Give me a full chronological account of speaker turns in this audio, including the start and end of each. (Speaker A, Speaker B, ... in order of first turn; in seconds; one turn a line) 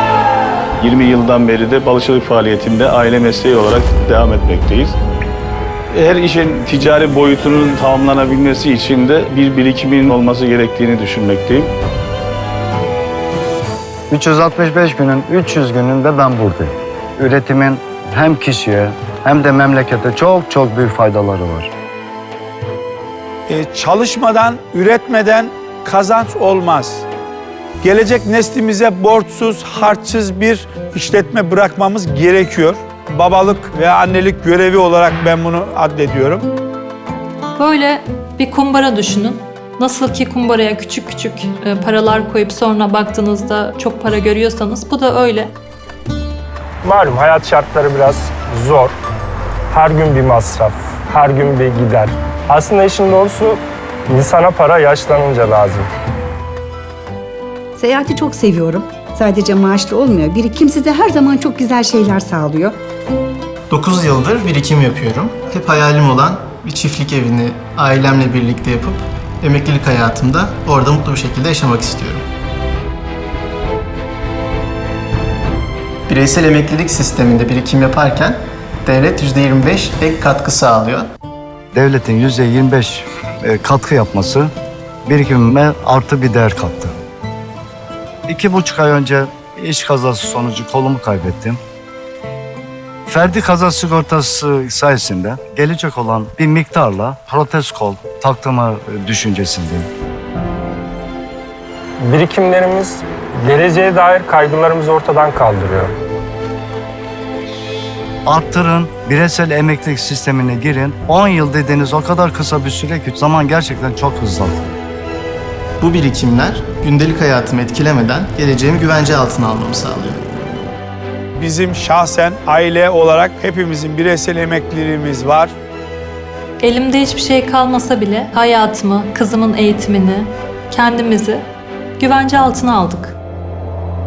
Speaker A: 0.8-4.9
Speaker A: 5.9-11.7
Speaker B: 14.1-21.7
Speaker C: 23.5-27.0
Speaker C: 27.8-36.5
Speaker D: 37.6-45.5
Speaker E: 46.8-48.9
Speaker E: 49.7-55.9
Speaker F: 57.8-62.8
Speaker G: 63.7-72.2
Speaker G: 76.1-81.1
Speaker B: 81.7-84.5
Speaker B: 85.0-86.9
Speaker B: 88.3-91.6
Speaker B: 93.1-99.9
Speaker E: 102.0-105.9
Speaker B: 108.2-114.7
Speaker G: 115.8-120.2
Speaker C: 121.4-125.5
Speaker D: 126.6-131.4
Speaker D: 132.0-133.2